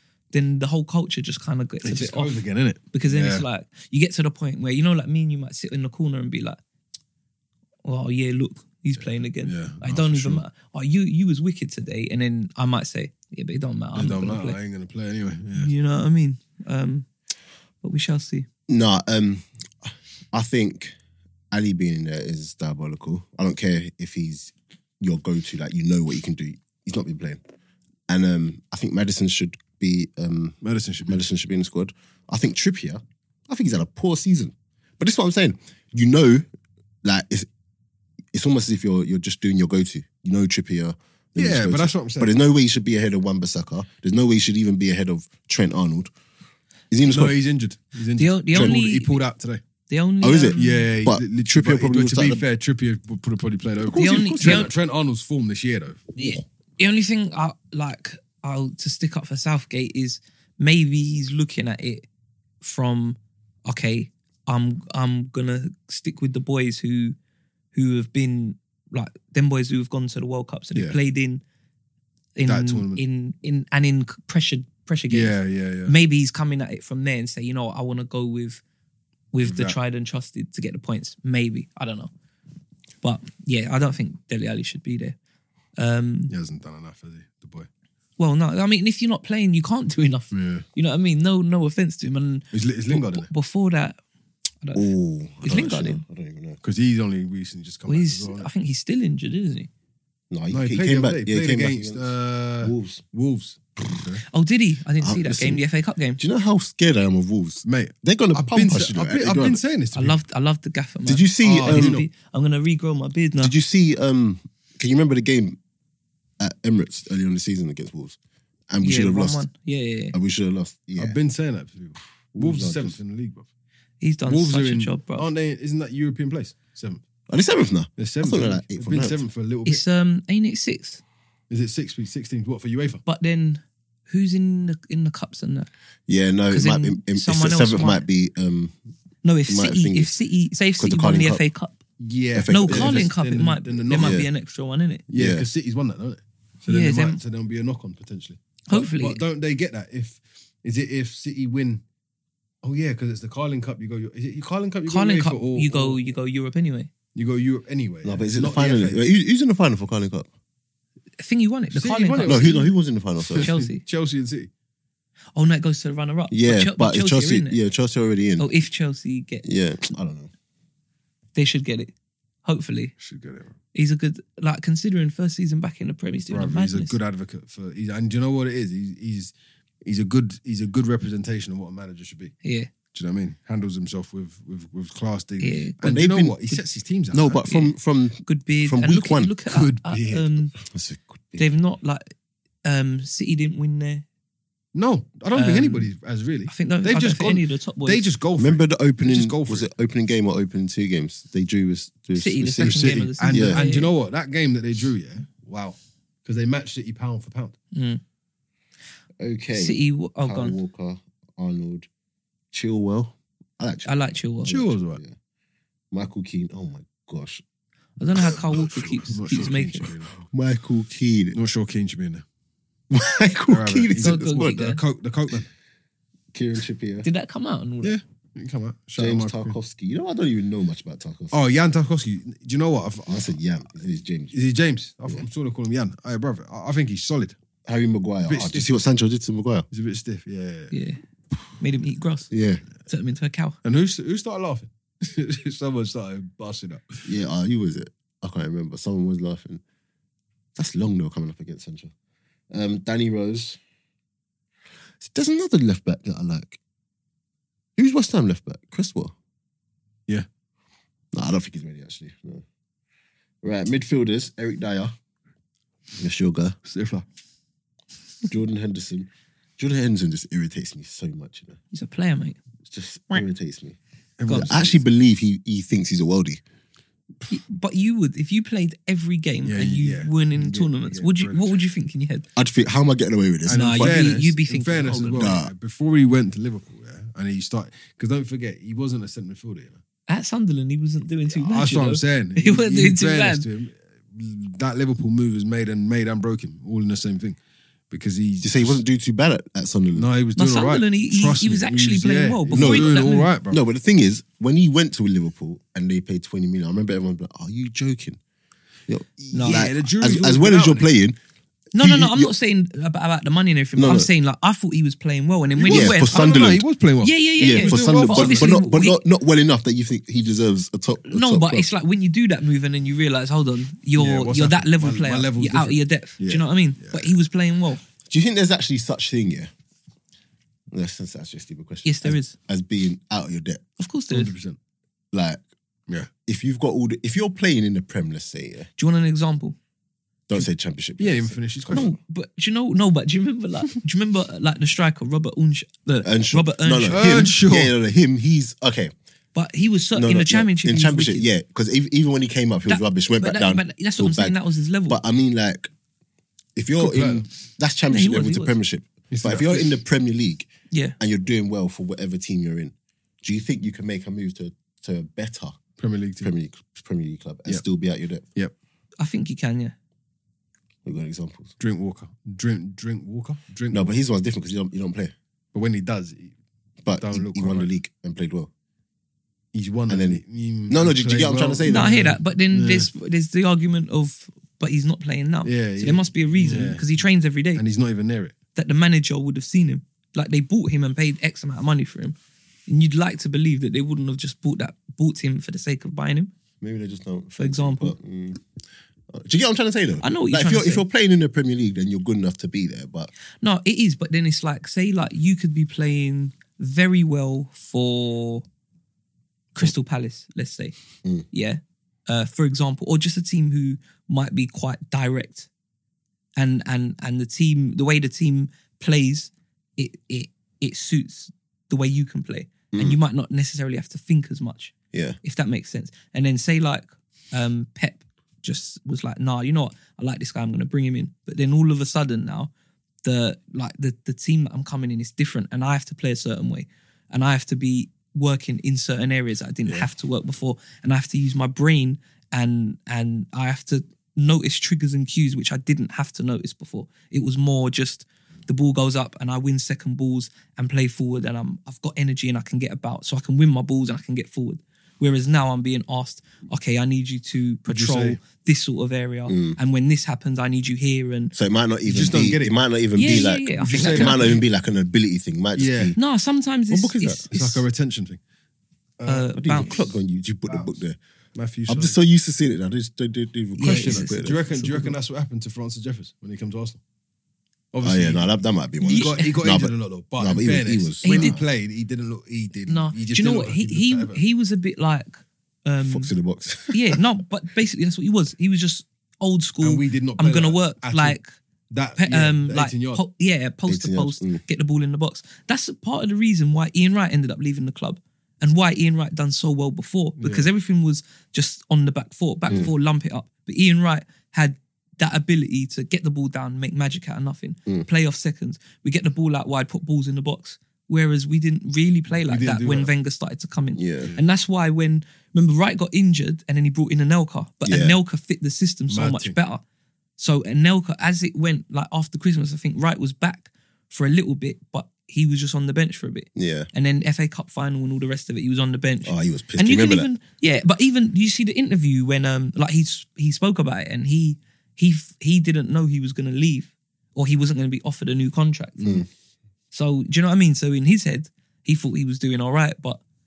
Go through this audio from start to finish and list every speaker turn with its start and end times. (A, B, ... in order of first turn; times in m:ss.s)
0:00.3-0:02.4 A
0:01.8-0:03.4 B
0:02.9-0:06.6 A
0:07.8-0:14.6 A
0:09.4-0:10.4 B
0:14.0-0:15.7 B
0:15.6-0:17.1 A
0:17.8-0:18.5 A
0:18.7-0:21.0 C
0:21.5-0:27.4 C
0:28.1-0:36.4 C
0:30.6-0:31.2 B
0:37.0-0:37.5 C
0:38.3-0:46.1 C
0:41.4-0:42.3 B
0:46.9-0:47.4 C
0:47.0-0:49.6 B
0:48.2-0:49.2 A
0:48.5-0:48.8 C
0:49.9-0:50.9 A
0:50.2-0:52.4 C
0:50.6-0:56.1 B
0:53.8-0:54.7 C
0:53.9-0:54.7 A
0:56.2-1:02.1 A
1:02.6-1:07.2 A
1:07.7-1:11.4 A
1:12.4-1:18.6 A
1:12.5-1:13.0 B
1:15.1-1:15.9 B
1:19.3-1:22.1 A
1:19.4-1:19.8 B
1:23.0-1:25.2 A
1:25.8-1:26.3 A
1:26.3-1:27.7 B
1:28.2-1:34.0 A
1:30.3-1:30.7 B
1:32.5-1:33.3 B
1:34.6-1:34.9 A
1:34.8-1:36.6 C
1:35.4-1:36.0 A
1:36.6-1:38.5 B
1:37.9-1:39.7 A
1:40.3-1:43.0 C
1:40.5-1:44.2 B
1:44.3-1:46.2 A
1:45.0-1:45.6 C
1:46.2-1:49.6 C
1:47.7-1:50.2 B
1:50.0-1:53.5 A
1:51.1-1:52.0 C
1:51.4-1:52.1 B
1:53.4-1:55.6 C
1:56.4-1:58.2 C
1:58.7-1:59.4 C
1:58.8-2:00.2 A
2:00.1-2:01.2 C
2:01.0-2:03.5 B
2:02.4-2:03.0 C
2:04.0-2:05.3 A
2:04.3-2:07.0 B
2:07.3-2:09.2 C
2:08.0-2:09.8 B
2:09.7-2:11.0 A
2:11.5-2:13.0 B
2:13.1-2:15.7 A
2:16.1-2:18.8 C
2:16.5-2:18.0 A
2:19.2-2:21.8 A
2:19.5-2:20.1 C
2:20.8-2:21.4 C
2:22.0-2:24.2 B
2:22.3-2:23.1 C
2:22.5-2:25.0 A
2:24.0-2:24.3 C
2:25.1-2:31.8 B
2:25.1-2:25.5 C
2:26.7-2:27.2 A
2:28.7-2:29.2 A
2:32.6-2:36.1 B
2:34.9-2:36.9 A
2:37.2-2:39.0 B
2:38.0-2:40.3 C
2:41.2-2:42.7 A
2:41.7-2:42.7 B
2:42.2-2:43.5 C
2:43.2-2:44.5 B
2:43.4-2:43.8 A
2:45.4-2:47.6 A
2:46.3-2:48.5 C
2:48.4-2:49.4 A
2:49.4-2:50.3 C
2:51.4-2:51.9 A
2:52.4-2:52.9 A
2:53.0-2:53.6 B
2:53.7-2:57.0 A
2:56.3-2:59.3 B
2:59.8-3:02.4 B
3:02.4-3:02.7 A
3:02.9-3:07.4 B
3:05.4-3:05.8 A
3:05.8-3:06.4 C
3:07.1-3:09.3 C
3:07.4-3:07.7 A
3:08.2-3:10.5 A
3:09.5-3:10.3 B
3:10.6-3:11.5 C
3:11.4-3:14.0 A
3:14.7-3:19.7 B
3:15.3-3:15.9 A
3:16.5-3:18.1 A
3:18.4-3:23.6 C
3:22.2-3:23.9 A
3:22.6-3:27.6 B
3:27.7-3:28.0 A
3:29.2-3:31.9 C
3:29.5-3:30.6 A
3:32.5-3:35.2 C
3:33.8-3:34.7 A
3:34.4-3:35.0 B
3:35.9-3:37.4 C
3:38.0-3:39.9 A
3:39.0-3:40.2 B
3:40.2-3:41.4 C
3:41.3-3:42.2 B
3:42.9-3:44.6 C
3:43.5-3:45.5 B
3:44.0-3:44.8 A
3:46.3-3:47.1 C
3:47.0-3:48.0 A
3:47.8-3:49.6 B
3:49.0-3:51.4 C
3:51.3-3:53.4 B
3:53.1-3:54.4 C
3:54.3-3:57.4 B
3:57.6-3:59.7 C
3:58.3-3:58.7 B
3:59.7-4:00.7 B
4:00.7-4:01.0 A
4:01.6-4:02.3 A
4:02.3-4:02.6 C
4:02.9-4:03.6 A
4:03.6-4:07.1 B
4:07.0-4:09.6 C
4:10.6-4:11.9 C
4:12.5-4:13.6 C
4:15.0-4:16.6 C
4:17.8-4:19.1 C
4:21.1-4:22.4 C
4:23.4-4:24.9 C
4:26.0-4:26.6 C
4:26.6-4:27.0 B
4:28.3-4:31.6 C
4:31.7-4:32.4 A
4:32.7-4:33.8 C
4:34.2-4:34.8 B
4:34.3-4:34.6 A
4:34.3-4:36.4 C
4:37.3-4:42.3 A
4:39.4-4:41.6 B
4:42.4-4:44.0 C
4:43.5-4:49.8 B
4:43.5-4:45.4 A
4:45.2-4:45.5 C
4:50.1-4:53.5 A
4:51.3-4:57.4 B
4:57.9-4:58.8 B
4:58.4-5:00.1 C
5:00.0-5:03.6 B
5:00.4-5:03.3 A
5:02.5-5:08.2 C
5:08.9-5:11.2 C
5:09.3-5:09.7 A
5:09.4-5:10.9 B
5:11.7-5:16.2 A
5:11.8-5:12.3 C
5:13.8-5:14.1 C
5:15.6-5:18.6 B
5:15.7-5:16.6 C
5:17.0-5:19.0 A
5:17.4-5:21.7 C
5:21.1-5:27.8 A
5:24.0-5:27.2 B
5:28.1-5:29.5 C
5:30.7-5:33.6 C
5:31.8-5:32.4 A
5:33.8-5:34.3 A
5:34.1-5:34.6 B
5:35.1-5:35.4 C
5:36.3-5:38.7 C
5:38.8-5:39.6 A
5:40.3-5:41.9 C
5:41.0-5:41.9 B
5:41.7-5:47.3 A
5:46.0-5:48.9 C
5:46.9-5:47.7 B
5:49.4-5:51.3 A
5:50.0-5:54.4 C
5:52.7-5:55.0 A
5:54.9-5:55.7 C
5:56.6-6:05.6 C
5:56.8-5:57.3 B
5:57.9-5:58.6 A
5:59.1-5:59.7 B
6:00.7-6:01.0 A
6:05.8-6:06.3 B
6:06.2-6:08.2 C
6:09.0-6:09.8 A
6:10.8-6:11.5 C
6:11.6-6:14.0 B
6:13.7-6:15.1 C
6:15.5-6:16.3 B
6:16.8-6:18.5 C
6:17.0-6:17.7 B
6:19.5-6:22.9 B
6:19.9-6:22.0 C
6:21.6-6:27.6 A
6:25.4-6:26.9 B
6:27.6-6:28.4 B
6:28.6-6:36.3 A
6:36.6-6:38.4 C
6:37.4-6:38.0 A
6:39.1-6:43.1 C
6:40.0-6:40.8 A
6:43.4-6:48.4 A
6:49.5-6:50.8 A
6:51.3-6:55.5 A
6:56.4-7:12.5 A
7:02.7-7:03.0 C
7:04.9-7:05.2 C
7:13.0-7:41.3 A
7:37.7-7:38.2 B
7:39.3-7:39.6 C
7:41.3-7:46.0 C
7:41.9-7:44.4 B
7:43.0-7:44.4 A
7:45.6-7:46.0 B
7:46.0-7:47.6 A
7:46.7-7:47.3 C
7:47.3-7:48.2 B
7:49.0-7:49.8 B
7:49.1-7:49.8 A
7:49.4-7:51.0 C
7:50.5-7:50.7 B
7:51.4-7:52.0 B
7:51.7-7:54.4 C
7:53.6-7:55.0 A
7:53.6-7:56.8 B
7:57.7-7:58.3 B
7:57.8-8:01.4 C
7:58.8-7:59.4 A
7:58.8-8:04.2 B
8:01.0-8:01.4 A
8:02.7-8:06.1 A
8:05.8-8:07.0 C
8:06.7-8:11.3 A
8:09.6-8:11.2 B
8:11.7-8:13.0 B
8:12.0-8:39.6 A
8:13.7-8:14.4 C
8:20.2-8:20.5 B
8:32.2-8:32.9 B
8:33.8-8:34.1 C
8:37.6-8:38.0 C
8:38.9-8:39.4 B
8:40.2-8:59.1 A
8:46.4-8:46.7 C
8:49.0-8:50.1 C
8:58.8-8:59.1 C
8:59.7-9:03.0 A